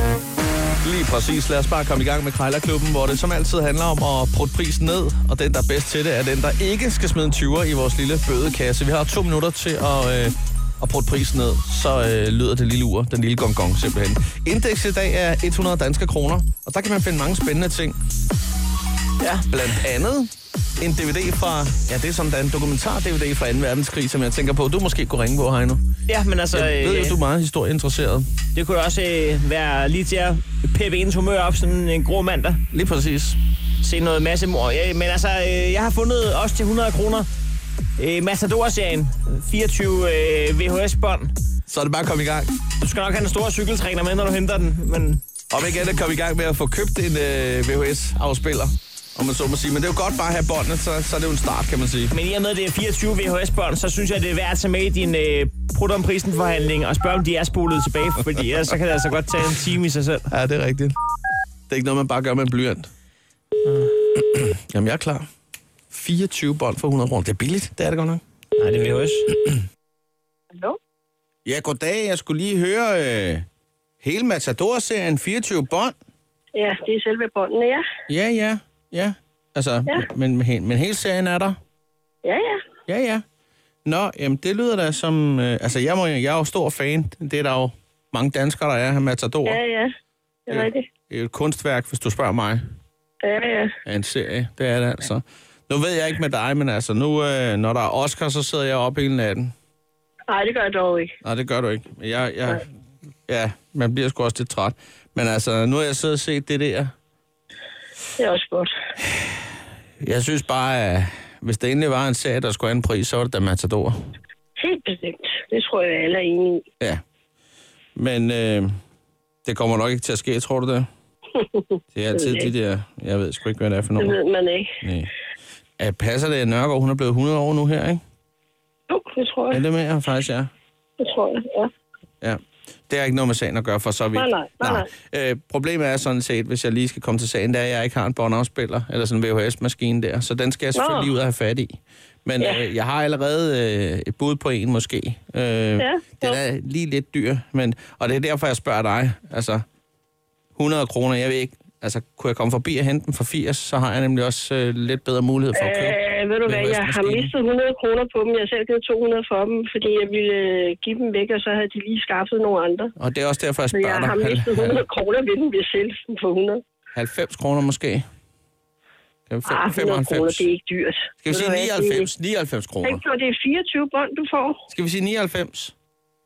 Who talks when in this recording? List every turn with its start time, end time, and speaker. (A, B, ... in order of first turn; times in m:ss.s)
0:00.8-0:18.0 A
0:19.2-0:19.6 B
0:19.5-0:25.8 A
0:26.1-0:27.2 B
0:26.5-0:28.3 A
0:28.5-0:32.6 B
0:32.7-0:33.4 A
0:33.8-0:37.3 B
0:38.0-0:41.3 B
0:41.7-0:42.5 A
0:42.8-0:45.2 B
0:45.5-0:52.1 A
0:52.1-1:00.3 B
1:00.3-1:01.0 A
1:01.7-1:02.9 A
1:04.2-1:05.2 A
1:05.9-1:08.2 A
1:08.6-1:09.3 B
1:11.4-1:13.4 A
1:14.0-1:15.9 A
1:16.5-1:17.8 C
1:18.1-1:21.6 A
1:22.2-1:22.6 C
1:22.9-1:23.2 A
1:23.8-1:29.6 A
1:29.4-1:29.9 C
1:30.5-1:30.8 C
1:30.5-1:32.6 A
1:33.2-1:33.7 C
1:33.8-1:39.5 A
1:40.3-1:41.1 C
1:41.2-1:42.6 A
1:43.3-1:46.9 A
1:48.2-1:48.7 C
1:50.0-1:53.9 A
1:54.6-1:56.6 C
1:58.0-1:58.7 A
1:59.4-2:00.9 A
2:01.9-2:04.2 A
2:02.1-2:02.5 C
2:04.0-2:04.7 C
2:04.8-2:05.1 A
2:05.8-2:08.0 A
2:08.9-2:09.6 C
2:09.5-2:10.5 A
2:11.0-2:11.7 C
2:12.2-2:29.6 A
2:14.1-2:14.9 C
2:20.7-2:21.1 C
2:22.4-2:22.6 C
2:25.8-2:26.4 C
2:30.6-2:37.3 A
2:35.5-2:42.9 C
2:43.0-2:44.8 A
2:43.7-2:46.6 C
2:46.9-2:48.0 A
2:49.3-2:50.4 A
2:49.4-2:52.1 C
2:51.2-2:53.0 A
2:52.8-2:54.6 C
2:54.7-2:55.7 A